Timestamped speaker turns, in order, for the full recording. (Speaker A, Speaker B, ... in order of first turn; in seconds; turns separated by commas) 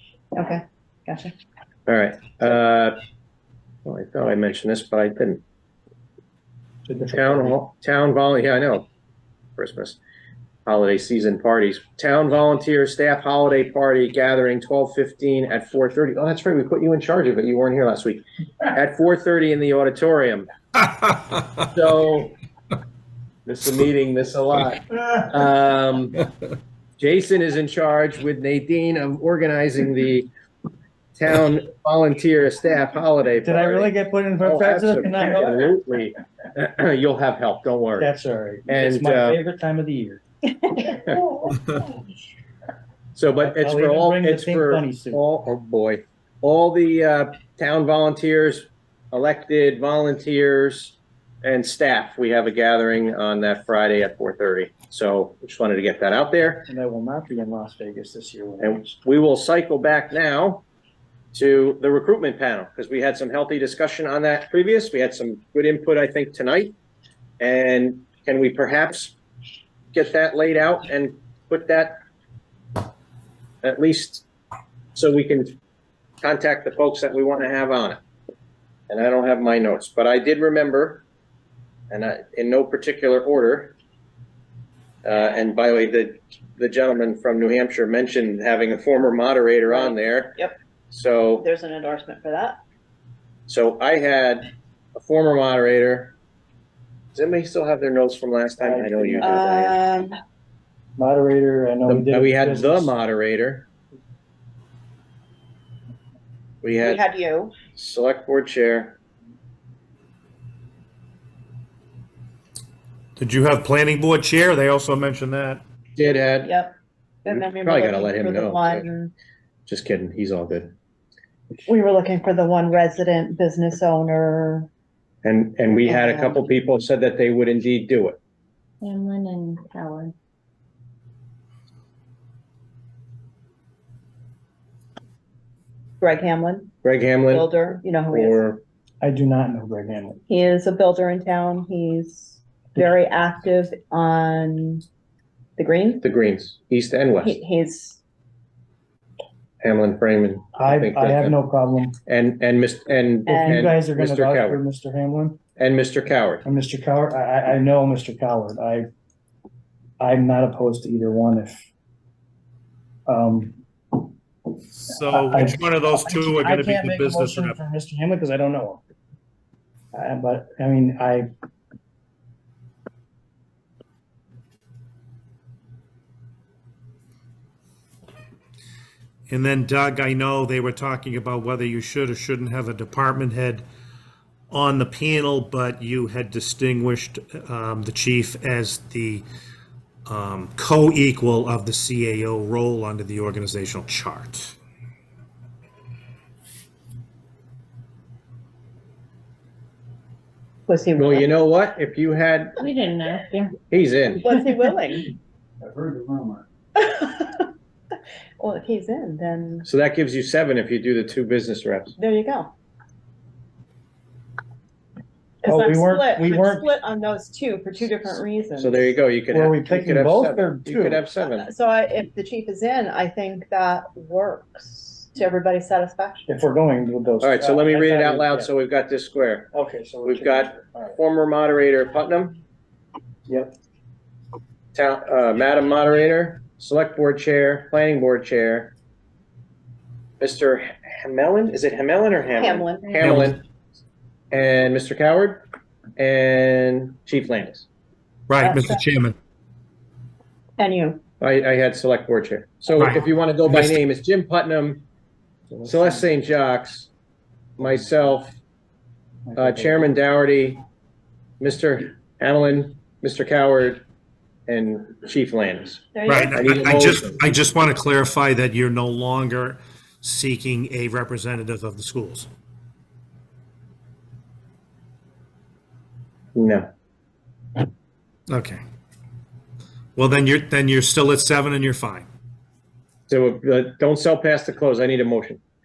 Speaker A: 0.3-1.3, Speaker B: 1.9-3.0, Speaker B: 3.9-5.4, Speaker C: 6.9-7.6, Speaker B: 7.1-8.9, Speaker B: 9.6-10.0, Speaker B: 10.7-20.5, Speaker B: 21.6-22.3, Speaker B: 23.5-26.2, Speaker B: 27.0-30.3, Speaker B: 31.2-38.1, Speaker C: 33.4-35.7, Speaker C: 38.0-40.2, Speaker B: 38.7-39.4, Speaker A: 40.6-41.0, Speaker B: 43.1-56.7, Speaker C: 43.4-45.2, Speaker C: 56.7-59.0, Speaker B: 58.6-60.6, Speaker B: 61.3-66.7, Speaker B: 67.4-69.2, Speaker B: 69.9-72.0, Speaker B: 73.6-74.3, Speaker B: 75.0-75.5, Speaker B: 76.2-78.0, Speaker B: 78.9-81.0, Speaker B: 81.9-83.7, Speaker B: 85.0-90.4, Speaker A: 89.7-90.5, Speaker B: 90.9-91.5, Speaker A: 91.4-92.6, Speaker B: 93.5-96.2, Speaker B: 97.1-99.8, Speaker C: 98.6-99.3, Speaker A: 99.2-100.2, Speaker C: 101.0-102.9, Speaker B: 101.9-103.7, Speaker B: 106.6-107.0, Speaker A: 106.8-107.5, Speaker B: 107.8-109.0, Speaker D: 113.2-115.6, Speaker B: 116.0-116.5, Speaker A: 116.4-116.7, Speaker A: 117.2-119.1, Speaker B: 117.3-118.9, Speaker B: 119.7-120.7, Speaker A: 121.7-124.7, Speaker B: 125.2-128.2, Speaker A: 125.8-126.5, Speaker E: 128.8-130.1, Speaker A: 136.0-136.8, Speaker B: 136.8-137.5, Speaker A: 137.3-138.4, Speaker B: 138.1-138.6, Speaker C: 139.0-140.2, Speaker A: 140.3-144.8, Speaker A: 145.6-146.0, Speaker B: 146.0-147.4, Speaker A: 147.2-148.0, Speaker B: 149.6-151.4, Speaker C: 150.6-152.0, Speaker B: 152.1-154.6, Speaker A: 153.3-153.7, Speaker C: 153.3-155.4, Speaker B: 155.6-156.4, Speaker C: 156.4-158.9, Speaker C: 160.0-161.7, Speaker C: 163.1-163.6, Speaker D: 164.8-167.6, Speaker C: 165.1-168.8, Speaker C: 169.9-171.3, Speaker D: 179.3-183.6, Speaker D: 184.5-189.2, Speaker D: 190.1-194.6, Speaker A: 200.7-201.3, Speaker B: 201.0-202.6, Speaker E: 202.6-203.6, Speaker B: 203.7-204.3, Speaker A: 204.2-205.1, Speaker E: 204.3-204.7, Speaker C: 205.6-206.4, Speaker A: 206.8-207.5, Speaker A: 208.4-209.7, Speaker B: 209.6-211.9, Speaker A: 212.0-212.5, Speaker A: 215.4-218.9, Speaker C: 215.5-216.6, Speaker B: 218.6-221.5, Speaker C: 219.3-221.0, Speaker A: 221.4-226.3, Speaker C: 226.3-228.5, Speaker B: 227.2-229.5, Speaker C: 229.5-231.0, Speaker B: 230.1-232.4, Speaker C: 233.3-233.5, Speaker B: 234.7-238.7, Speaker B: 240.2-243.4, Speaker A: 242.3-243.2, Speaker D: 243.0-243.3, Speaker B: 244.3-245.4, Speaker B: 246.0-247.7, Speaker D: 248.3-249.2, Speaker A: 248.4-248.8, Speaker A: 250.6-251.0, Speaker B: 251.2-254.8, Speaker D: 252.8-253.8, Speaker B: 255.6-256.9, Speaker B: 257.6-258.4, Speaker C: 259.3-259.9, Speaker B: 259.4-260.6, Speaker B: 261.4-263.8, Speaker B: 264.5-267.2, Speaker A: 265.9-266.6, Speaker D: 266.1-272.3, Speaker B: 276.4-276.7, Speaker D: 278.3-278.6, Speaker D: 280.0-282.1, Speaker B: 283.1-285.4